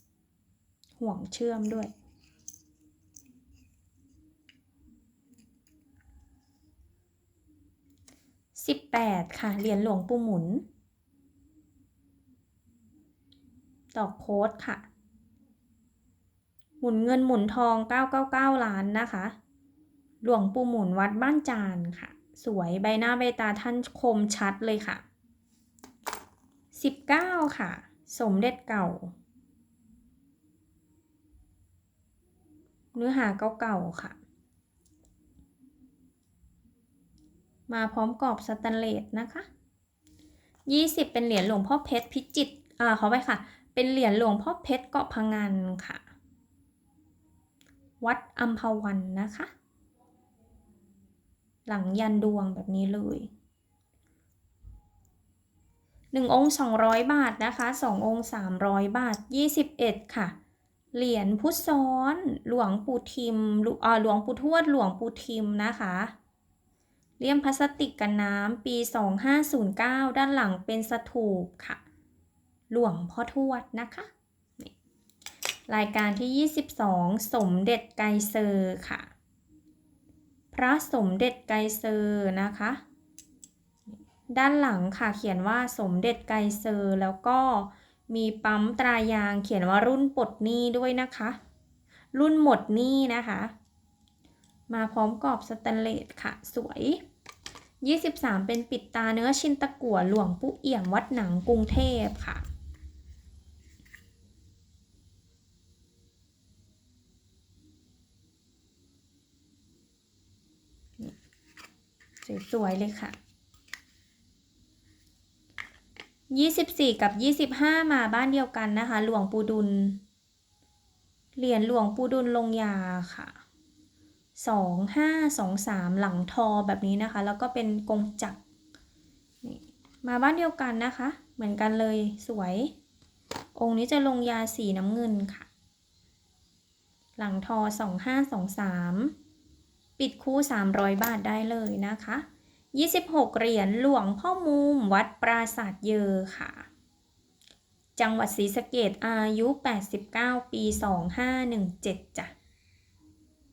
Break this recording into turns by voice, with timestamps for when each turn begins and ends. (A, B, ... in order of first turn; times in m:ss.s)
0:01.0-0:01.9 A
0:08.6-0:10.6 A
0:13.9-0:14.8 A
0:16.8-0:19.4 A
0:20.2-0:25.0 A
0:26.7-0:29.1 A
0:32.9-0:34.2 A
0:37.7-0:39.5 A
0:40.7-0:46.0 A
0:48.0-0:49.5 A
0:51.6-0:53.3 A
0:56.1-1:00.3 A
1:00.9-1:06.1 A
1:07.2-1:11.8 A
1:12.7-1:14.7 A
1:15.7-1:19.1 A
1:20.5-1:22.8 A
1:24.3-1:31.4 A
1:32.1-1:33.5 A
1:34.7-1:37.0 A
1:37.8-1:42.4 A
1:52.2-1:53.2 A
1:56.3-2:00.0 A
2:01.4-2:03.3 A
2:04.4-2:08.4 A
2:09.4-2:12.7 A
2:13.6-2:15.5 A
2:17.2-2:19.1 A
2:20.0-2:26.7 A
2:28.0-2:32.3 A